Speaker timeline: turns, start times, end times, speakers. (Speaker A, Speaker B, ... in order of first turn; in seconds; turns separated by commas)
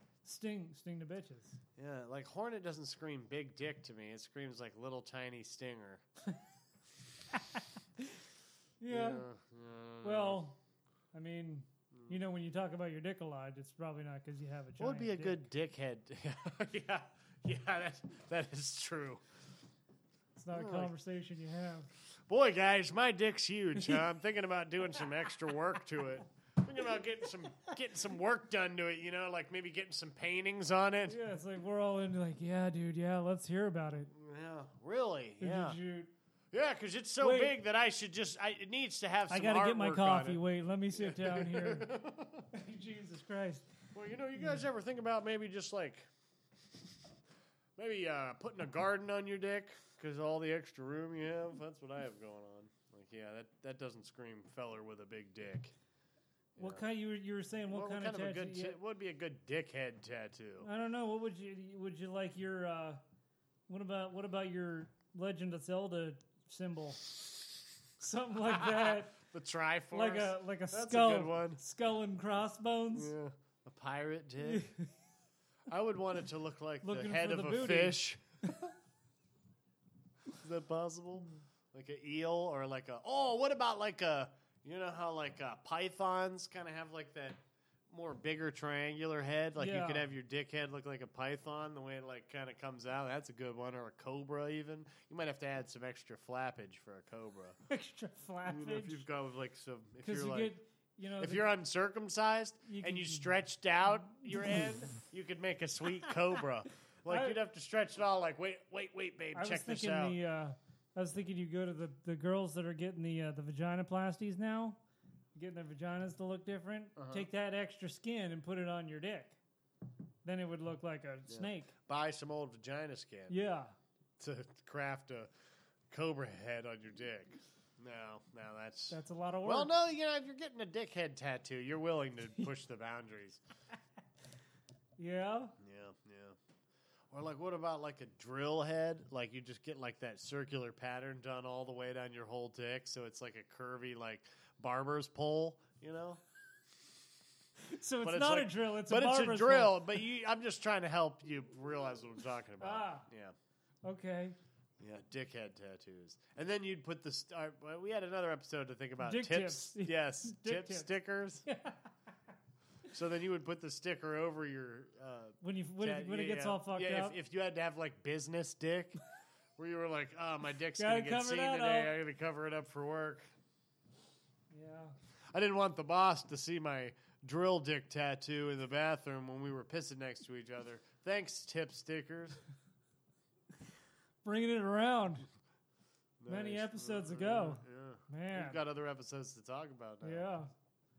Speaker A: 0.2-1.6, Speaker B: 1.8-6.0, Speaker A: 7.3-8.1, Speaker A: 8.8-9.2, Speaker B: 8.9-10.4, Speaker A: 10.0-10.6, Speaker A: 11.1-15.4, Speaker B: 14.8-19.2, Speaker A: 20.3-21.9, Speaker B: 20.5-20.9, Speaker B: 22.3-31.2, Speaker A: 23.8-24.1, Speaker A: 31.1-34.1, Speaker B: 34.1-35.8, Speaker A: 35.4-36.1, Speaker B: 36.5-40.4, Speaker A: 37.2-37.5, Speaker A: 39.3-41.9, Speaker B: 41.0-42.5, Speaker A: 42.5-43.7, Speaker B: 43.9-46.1, Speaker A: 44.4-44.6, Speaker B: 47.8-55.7, Speaker B: 56.5-56.8, Speaker A: 56.6-58.8, Speaker B: 57.7-60.7, Speaker A: 60.6-63.0, Speaker A: 63.7-67.1, Speaker A: 68.0-69.1, Speaker B: 68.5-71.6, Speaker A: 69.9-73.1, Speaker B: 72.9-74.7, Speaker A: 74.4-74.9, Speaker B: 75.7-78.2, Speaker A: 76.8-78.7, Speaker B: 80.3-97.6, Speaker A: 89.5-90.1, Speaker A: 97.7-99.0, Speaker B: 98.5-100.5, Speaker A: 100.0-101.5, Speaker B: 101.2-110.2, Speaker A: 102.7-103.3, Speaker A: 104.1-104.8, Speaker A: 107.1-107.4, Speaker A: 109.3-114.8, Speaker A: 115.3-119.4, Speaker B: 117.0-117.3, Speaker A: 120.2-121.7, Speaker B: 121.3-123.4, Speaker A: 123.3-123.7, Speaker B: 124.2-125.3, Speaker B: 125.9-133.4, Speaker A: 128.9-129.7, Speaker A: 135.0-135.5, Speaker B: 135.6-136.4, Speaker B: 137.1-146.2, Speaker A: 147.6-149.9, Speaker B: 148.0-153.3, Speaker A: 152.6-153.1, Speaker A: 153.8-154.3, Speaker B: 154.8-161.4, Speaker A: 159.0-160.9, Speaker A: 161.4-161.9, Speaker B: 162.9-169.0, Speaker A: 165.4-167.2, Speaker B: 169.6-173.2, Speaker A: 170.7-171.9, Speaker A: 174.5-174.9, Speaker B: 175.3-182.4, Speaker A: 184.2-185.3, Speaker B: 186.2-190.2, Speaker A: 186.3-188.6, Speaker A: 190.0-190.5